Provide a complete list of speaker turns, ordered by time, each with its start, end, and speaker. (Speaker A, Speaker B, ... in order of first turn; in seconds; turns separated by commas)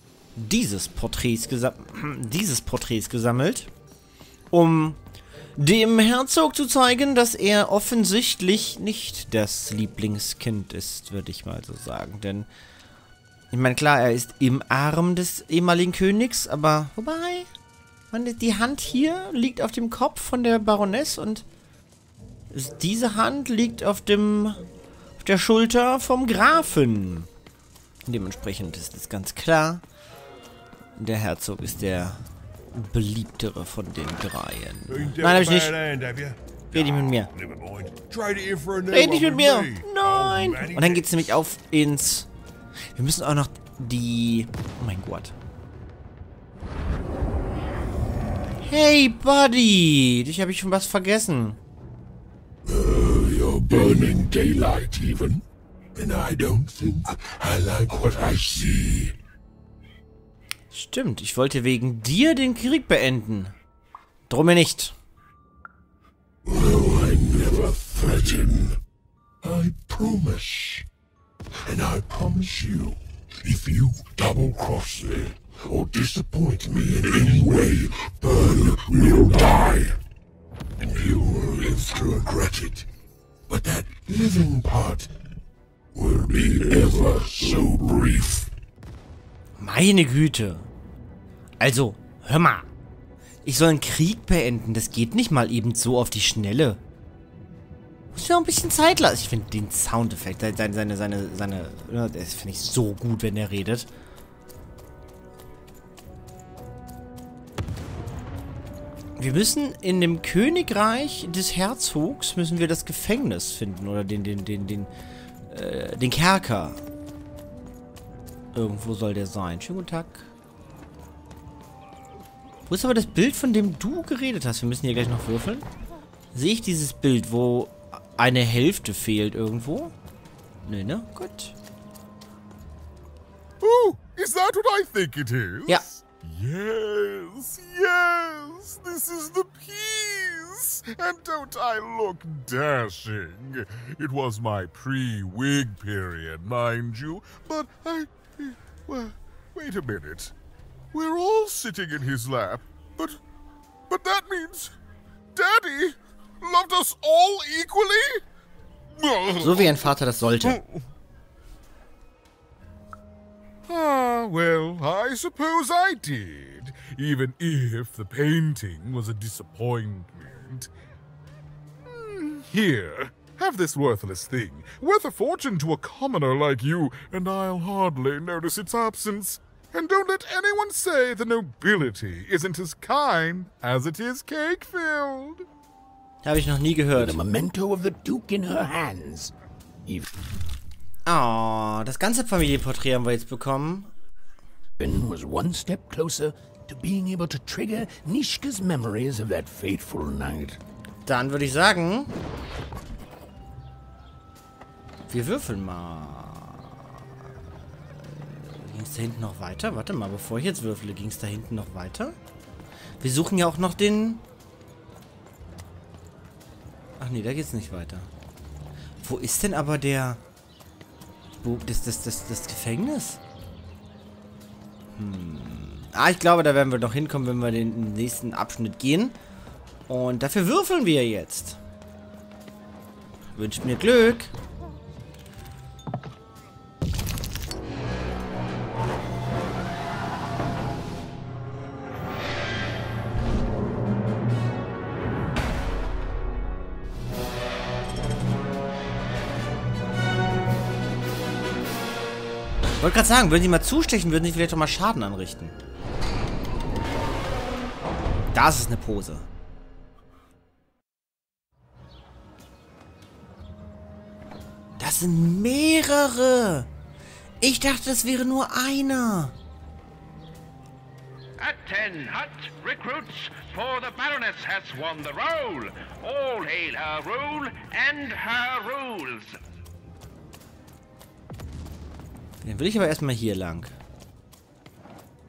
Speaker A: 0.3-3.7, Speaker A: 4.5-5.0, Speaker A: 5.6-12.5, Speaker A: 13.5-17.5, Speaker A: 18.1-21.4, Speaker A: 22.5-24.6, Speaker A: 25.2-27.3, Speaker A: 28.1-29.8, Speaker A: 31.0-32.2, Speaker A: 32.7-35.8, Speaker B: 34.9-41.4, Speaker A: 36.7-37.3, Speaker A: 38.9-42.3, Speaker A: 42.9-45.3, Speaker A: 48.6-51.6, Speaker B: 52.7-55.4, Speaker B: 56.0-59.1, Speaker A: 60.7-63.5, Speaker A: 64.3-64.9, Speaker B: 66.5-68.8, Speaker B: 69.4-70.8, Speaker B: 71.7-80.0, Speaker B: 80.8-82.9, Speaker B: 83.5-85.1, Speaker B: 85.9-88.5, Speaker A: 89.6-90.7, Speaker A: 91.6-92.7, Speaker A: 93.4-96.8, Speaker A: 98.1-103.9, Speaker A: 109.2-114.9, Speaker A: 115.5-116.8, Speaker A: 118.5-120.3, Speaker A: 122.7-125.7, Speaker A: 126.3-129.9, Speaker A: 130.7-131.6, Speaker C: 133.6-150.3, Speaker C: 150.9-153.2, Speaker C: 153.9-154.7, Speaker C: 155.3-158.2, Speaker C: 159.0-159.9, Speaker A: 159.4-160.6, Speaker C: 160.4-160.8, Speaker C: 163.7-170.7, Speaker C: 171.9-185.4, Speaker A: 186.2-187.2, Speaker D: 186.9-189.3, Speaker A: 191.1-193.9, Speaker D: 194.8-200.6, Speaker A: 201.1-202.1, Speaker A: 205.1-206.8, Speaker A: 207.9-212.2, Speaker A: 213.0-214.2, Speaker A: 217.0-218.1, Speaker A: 219.0-220.2, Speaker A: 221.4-223.2, Speaker A: 224.9-229.2, Speaker A: 229.9-231.6, Speaker A: 233.3-234.3, Speaker A: 252.8-255.5, Speaker A: 258.3-259.3, Speaker A: 264.8-266.7, Speaker A: 267.4-269.3, Speaker E: 271.4-279.4, Speaker A: 282.4-283.7